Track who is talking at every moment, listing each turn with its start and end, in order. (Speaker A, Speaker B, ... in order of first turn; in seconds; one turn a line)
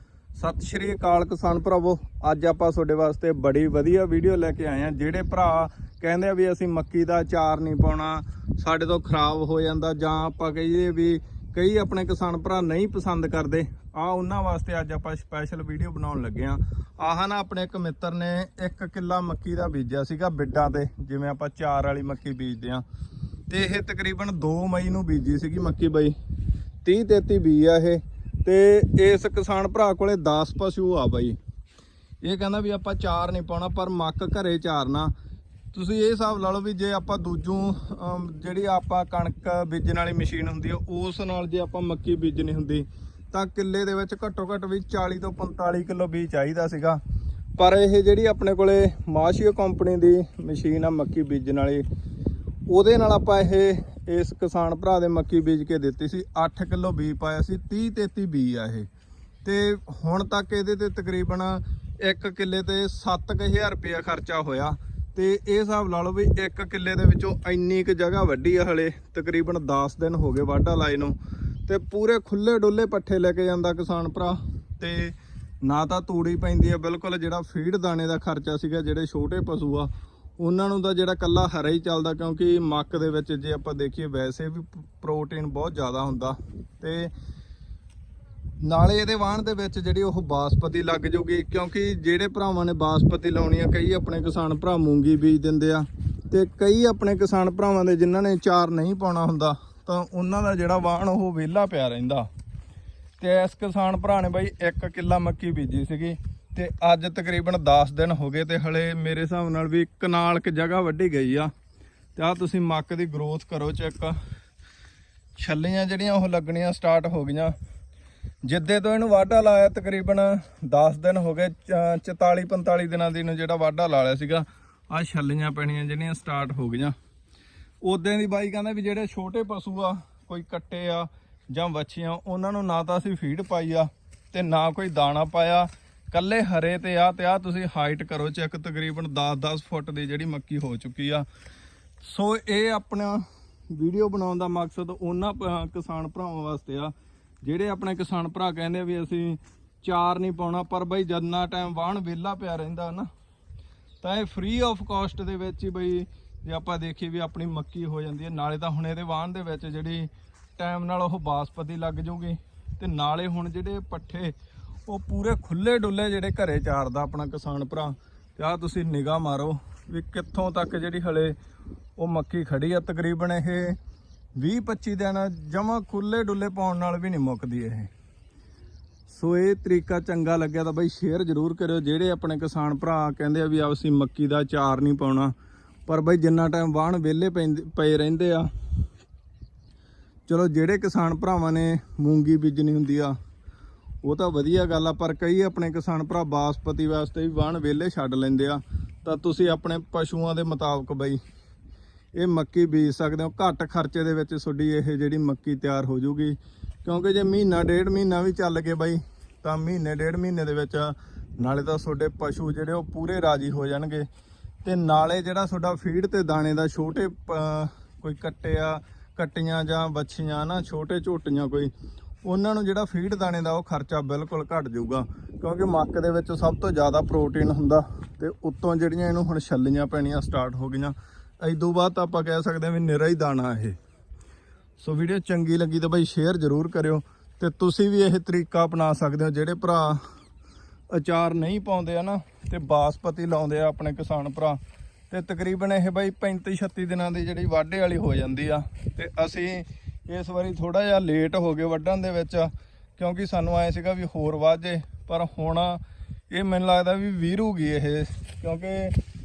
Speaker A: 0.4-22.8
Speaker A: 23.5-26.1
Speaker A: 26.8-31.4
Speaker A: 32.2-35.1
Speaker A: 35.7-47.0
Speaker A: 47.6-51.8
Speaker A: 52.7-58.9
Speaker A: 59.5-71.2
Speaker A: 71.7-87.1
Speaker A: 88.6-102.3
Speaker A: 103.2-111.5
Speaker A: 112.2-114.2
Speaker A: 115.4-117.5
Speaker A: 118.4-126.9
Speaker A: 127.8-141.2
Speaker A: 142.0-153.1
Speaker A: 154.0-164.3
Speaker A: 164.9-171.4
Speaker A: 172.0-173.8
Speaker A: 174.4-177.9
Speaker A: 179.1-185.3
Speaker A: 185.9-188.5
Speaker A: 190.3-193.2
Speaker A: 194.0-201.2
Speaker A: 202.2-214.1
Speaker A: 214.7-221.7
Speaker A: 222.2-233.8
Speaker A: 234.8-240.0
Speaker A: 240.9-244.6
Speaker A: 245.1-258.9